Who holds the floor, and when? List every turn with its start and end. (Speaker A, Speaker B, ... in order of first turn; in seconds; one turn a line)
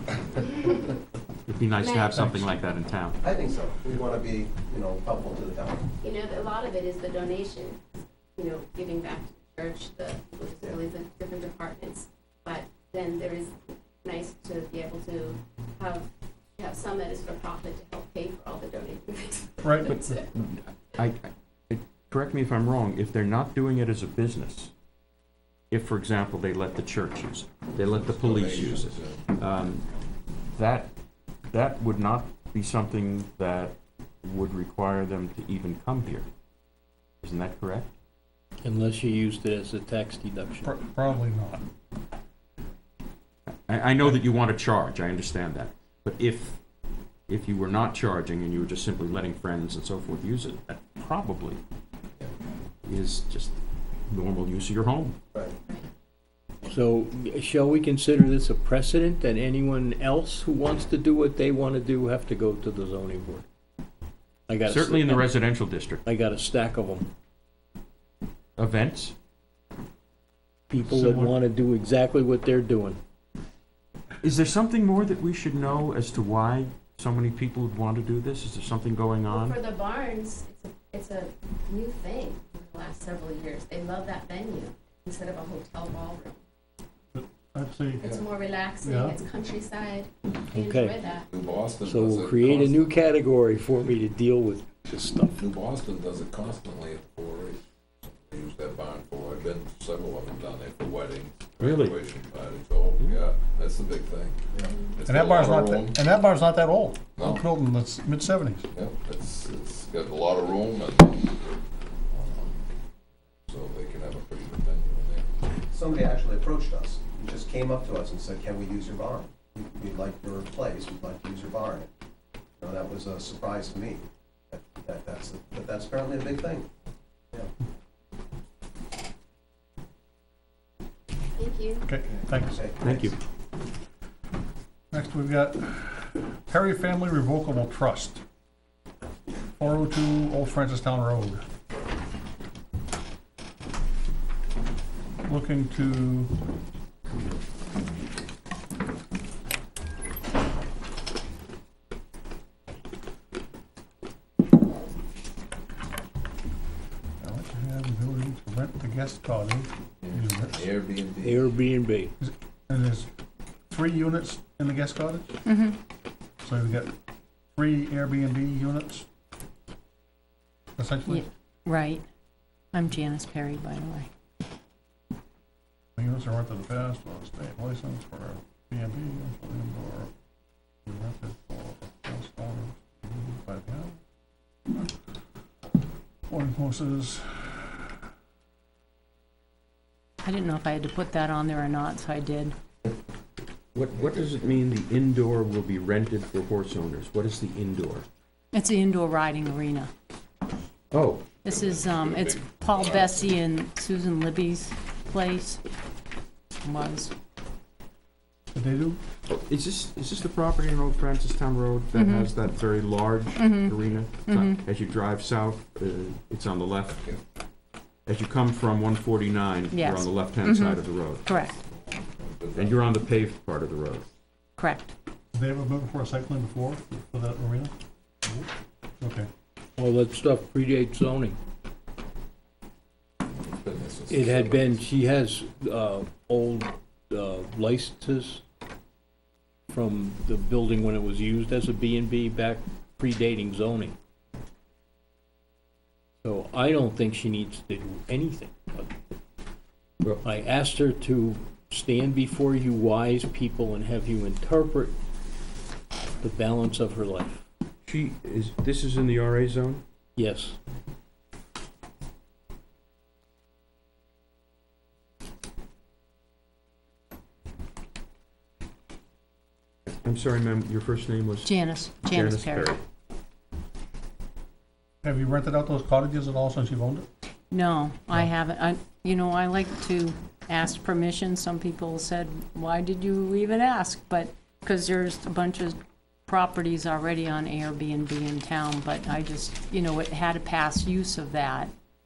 Speaker A: 1.5-3.2
Speaker B: 1.8-2.1
Speaker C: 2.1-2.5
Speaker D: 3.2-5.9
Speaker B: 6.0-7.8
Speaker B: 8.4-20.2
Speaker C: 19.6-20.1
Speaker A: 19.9-24.7
Speaker A: 25.7-29.8
Speaker E: 27.8-29.3
Speaker A: 30.6-30.9
Speaker A: 31.5-36.3
Speaker A: 37.2-37.9
Speaker F: 38.6-40.7
Speaker C: 40.6-41.6
Speaker A: 43.7-46.6
Speaker A: 47.3-51.6
Speaker A: 52.8-53.5
Speaker A: 54.1-55.2
Speaker F: 56.7-63.5
Speaker F: 64.5-65.4
Speaker A: 64.6-66.0
Speaker F: 66.0-67.1
Speaker A: 68.6-69.1
Speaker F: 70.7-73.0
Speaker C: 70.9-71.3
Speaker A: 74.2-79.6
Speaker B: 79.3-86.4
Speaker C: 87.1-88.0
Speaker B: 88.0-91.3
Speaker C: 88.8-89.2
Speaker F: 90.5-90.9
Speaker E: 91.3-93.2
Speaker F: 91.8-95.4
Speaker E: 95.3-104.4
Speaker A: 101.6-102.0
Speaker E: 104.9-106.0
Speaker C: 105.0-108.7
Speaker E: 107.2-107.5
Speaker E: 108.7-111.3
Speaker E: 112.1-112.7
Speaker E: 113.5-115.3
Speaker D: 115.7-121.9
Speaker D: 122.6-126.7
Speaker B: 131.4-131.8
Speaker C: 131.8-133.1
Speaker D: 132.2-133.1
Speaker A: 132.8-133.2
Speaker C: 134.9-138.2
Speaker C: 139.6-141.4
Speaker C: 145.2-146.3
Speaker C: 157.2-160.6
Speaker E: 160.0-161.7
Speaker F: 161.2-162.1
Speaker C: 162.2-163.1
Speaker C: 163.7-165.4
Speaker G: 165.4-165.8
Speaker C: 166.4-167.0
Speaker C: 167.5-169.1
Speaker C: 170.8-171.2
Speaker G: 171.1-172.1
Speaker G: 172.7-174.1
Speaker C: 176.0-180.1
Speaker C: 180.9-184.0
Speaker C: 186.3-187.9
Speaker G: 190.2-192.6
Speaker A: 193.7-198.1
Speaker E: 194.0-194.3
Speaker G: 198.5-199.9
Speaker A: 200.9-201.3
Speaker G: 201.4-205.6
Speaker E: 201.5-203.3
Speaker G: 206.6-207.2
Speaker C: 208.5-209.0
Speaker A: 209.3-217.0
Speaker G: 211.9-212.3
Speaker G: 213.4-214.7
Speaker A: 218.1-221.3
Speaker G: 219.7-221.5
Speaker E: 221.6-222.9
Speaker A: 222.6-224.1
Speaker G: 224.6-224.9
Speaker C: 225.3-227.7
Speaker C: 229.0-229.3
Speaker F: 229.8-231.4
Speaker E: 233.2-234.9
Speaker F: 234.1-238.4
Speaker F: 239.7-243.9
Speaker F: 246.2-248.9
Speaker F: 250.2-254.9
Speaker F: 256.2-257.4
Speaker A: 257.8-259.8
Speaker F: 260.1-260.6
Speaker A: 270.0-271.5
Speaker G: 271.4-272.7
Speaker A: 272.0-272.8
Speaker C: 275.0-277.1
Speaker G: 277.5-291.7